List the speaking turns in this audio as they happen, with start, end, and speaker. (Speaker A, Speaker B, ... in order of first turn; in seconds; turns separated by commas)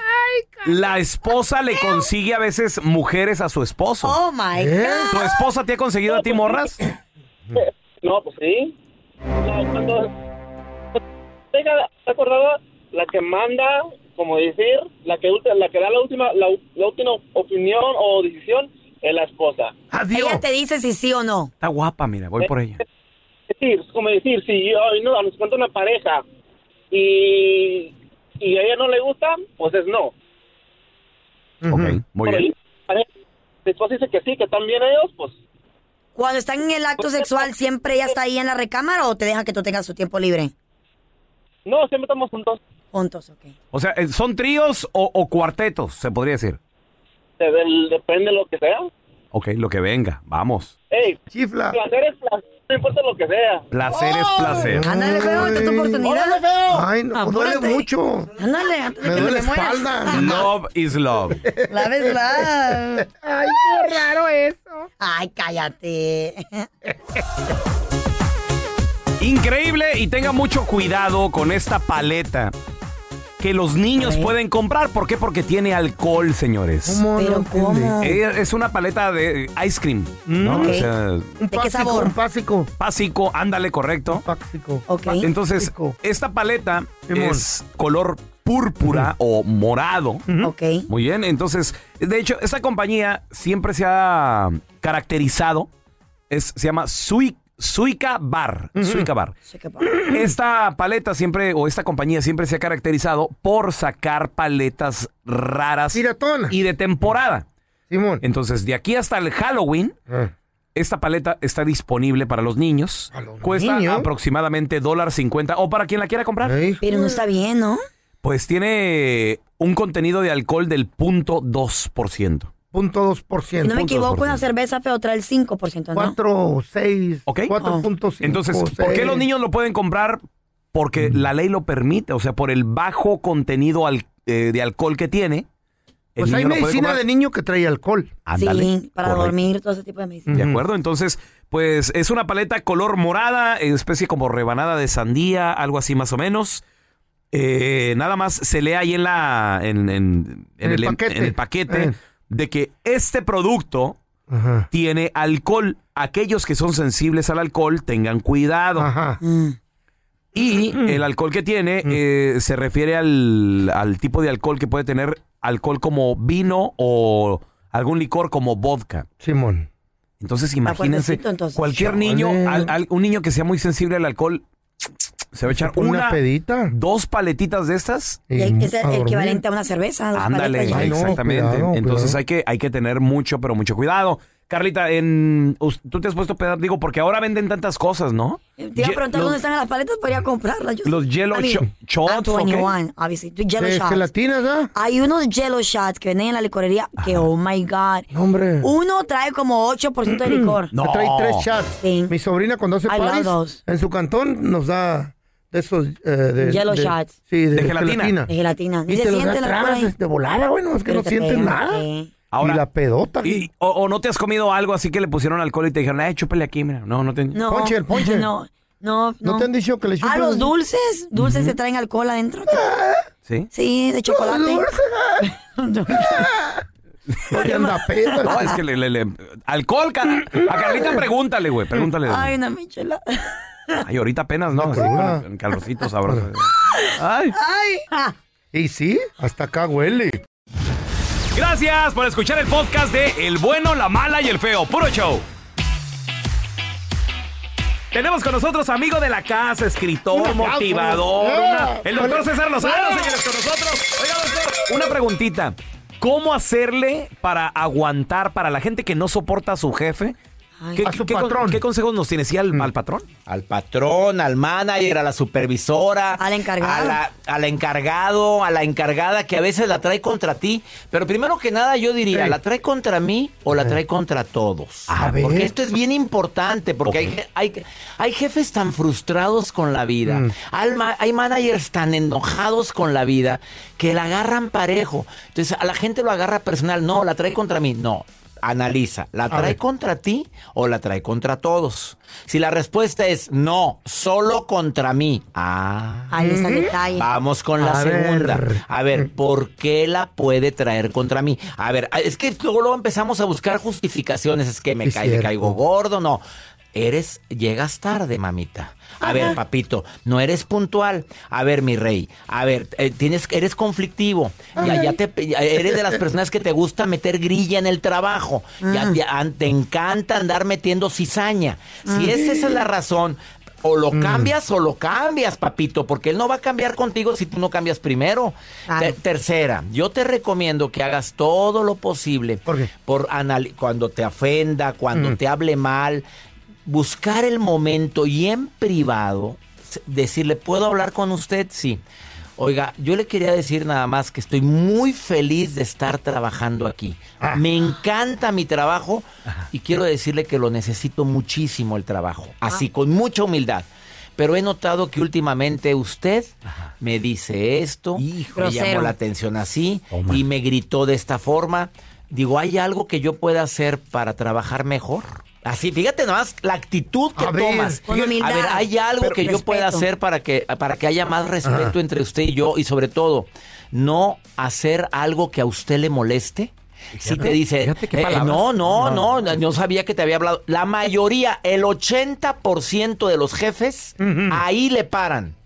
Speaker A: 0.2-0.7, Speaker B: 0.6-4.2, Speaker C: 4.0-5.2, Speaker A: 4.5-5.2, Speaker B: 5.1-6.8, Speaker D: 6.1-6.7, Speaker D: 7.5-8.8, Speaker D: 9.4-10.1, Speaker D: 11.5-19.7, Speaker A: 19.9-20.4, Speaker C: 20.1-21.5, Speaker B: 21.6-22.8, Speaker D: 23.5-26.2, Speaker D: 26.9-30.1, Speaker A: 31.6-32.0, Speaker B: 31.7-32.5, Speaker D: 32.2-33.1, Speaker D: 33.6-35.4, Speaker C: 36.2-40.5, Speaker D: 37.0-37.3, Speaker D: 41.7-42.6, Speaker C: 42.9-43.5, Speaker B: 43.7-46.6, Speaker D: 47.4-48.9, Speaker B: 49.3-50.7, Speaker D: 50.9-51.2, Speaker A: 51.3-51.8, Speaker D: 51.7-53.7, Speaker B: 53.7-54.8, Speaker A: 54.3-56.0, Speaker C: 54.8-56.5, Speaker D: 56.0-56.8, Speaker A: 56.7-58.3, Speaker C: 57.1-57.9, Speaker C: 58.4-60.3, Speaker A: 59.0-60.5, Speaker B: 60.1-61.4, Speaker A: 61.4-62.5, Speaker C: 61.7-63.1, Speaker A: 63.1-64.9, Speaker C: 65.0-66.7, Speaker B: 69.2-72.5, Speaker B: 73.4-77.0, Speaker C: 74.0-74.3, Speaker A: 76.8-78.0, Speaker C: 77.2-78.2, Speaker B: 78.0-81.3, Speaker A: 80.3-80.8, Speaker C: 80.5-80.9, Speaker A: 81.4-82.7, Speaker C: 81.5-82.1, Speaker B: 82.8-84.2, Speaker A: 84.1-85.0, Speaker C: 84.9-85.3, Speaker B: 85.2-90.2, Speaker A: 85.6-86.0, Speaker A: 87.1-87.4, Speaker A: 88.8-89.1, Speaker A: 90.3-90.5, Speaker C: 90.4-90.9, Speaker B: 90.9-95.7, Speaker B: 96.3-99.3, Speaker A: 98.8-99.1, Speaker C: 99.5-100.0, Speaker B: 100.1-107.5, Speaker A: 105.9-106.5, Speaker A: 107.9-108.2, Speaker B: 108.2-110.0, Speaker B: 110.8-116.6, Speaker A: 113.1-114.1, Speaker A: 116.4-116.8, Speaker C: 116.8-117.8, Speaker B: 118.2-122.5, Speaker A: 122.7-124.1, Speaker C: 123.6-126.2, Speaker B: 123.9-124.4, Speaker A: 126.0-129.2, Speaker B: 127.3-127.5, Speaker B: 128.2-130.2, Speaker B: 130.7-135.5, Speaker B: 136.2-137.0, Speaker A: 136.2-138.1, Speaker B: 138.3-139.3, Speaker C: 138.4-140.3, Speaker A: 140.3-140.6, Speaker B: 140.3-146.6, Speaker B: 147.3-154.0, Speaker A: 150.6-151.9, Speaker A: 154.3-154.7, Speaker B: 154.7-158.9, Speaker A: 158.8-159.2, Speaker C: 159.2-159.6, Speaker B: 160.3-169.1, Speaker A: 169.2-169.7, Speaker B: 170.2-174.4, Speaker C: 170.7-171.7, Speaker A: 171.8-172.7, Speaker B: 175.3-176.2, Speaker A: 175.5-176.7, Speaker B: 176.7-178.2, Speaker A: 178.3-179.4, Speaker C: 178.4-181.1, Speaker B: 180.2-189.4, Speaker A: 180.7-182.2, Speaker C: 188.6-194.1, Speaker B: 190.8-192.7, Speaker A: 193.6-194.7, Speaker C: 194.8-198.1, Speaker A: 198.1-198.7, Speaker C: 198.6-200.7, Speaker A: 200.1-208.3, Speaker B: 200.7-201.5, Speaker C: 201.8-202.1, Speaker C: 202.9-203.6, Speaker C: 206.4-207.1, Speaker B: 207.5-208.1, Speaker C: 208.3-209.9, Speaker A: 208.9-211.8, Speaker C: 210.9-212.1, Speaker B: 212.3-212.6, Speaker A: 212.4-213.5, Speaker B: 213.2-217.4, Speaker C: 217.3-219.5, Speaker A: 217.5-218.3, Speaker A: 219.2-220.5, Speaker C: 220.0-222.7, Speaker B: 221.2-221.5, Speaker A: 222.5-223.1, Speaker C: 223.5-224.7, Speaker A: 224.1-225.3, Speaker C: 225.2-226.3, Speaker A: 225.9-226.6, Speaker A: 227.3-228.5, Speaker C: 227.3-228.5, Speaker B: 228.2-232.3, Speaker C: 232.1-233.8, Speaker B: 233.8-237.4, Speaker A: 234.6-235.2, Speaker C: 236.8-238.1, Speaker A: 238.5-240.2, Speaker B: 241.3-245.2, Speaker B: 247.9-260.2, Speaker A: 250.1-253.1, Speaker C: 260.6-260.9, Speaker B: 260.8-263.1, Speaker A: 260.8-261.6, Speaker E: 263.3-296.1, Speaker C: 266.2-267.0, Speaker A: 272.1-272.4, Speaker A: 274.9-275.5, Speaker B: 276.9-277.1, Speaker A: 280.1-280.3, Speaker A: 289.3-289.6, Speaker C: 296.1-297.1, Speaker A: 296.2-296.7, Speaker E: 296.9-306.2, Speaker A: 297.6-299.1, Speaker A: 304.8-305.6, Speaker E: 306.7-336.1, Speaker A: 309.0-309.4, Speaker A: 314.6-314.9, Speaker A: 315.7-316.0, Speaker C: 318.6-319.0, Speaker C: 321.9-322.2, Speaker A: 323.9-324.3, Speaker C: 328.7-328.9, Speaker A: 332.5-332.7, Speaker E: 336.7-341.8, Speaker E: 342.4-385.4, Speaker B: 358.0-358.4, Speaker C: 358.4-358.9, Speaker B: 359.9-360.2, Speaker A: 367.2-367.8, Speaker C: 367.9-369.9, Speaker A: 371.4-371.8, Speaker B: 377.0-379.0, Speaker A: 378.8-379.1, Speaker A: 384.0-384.4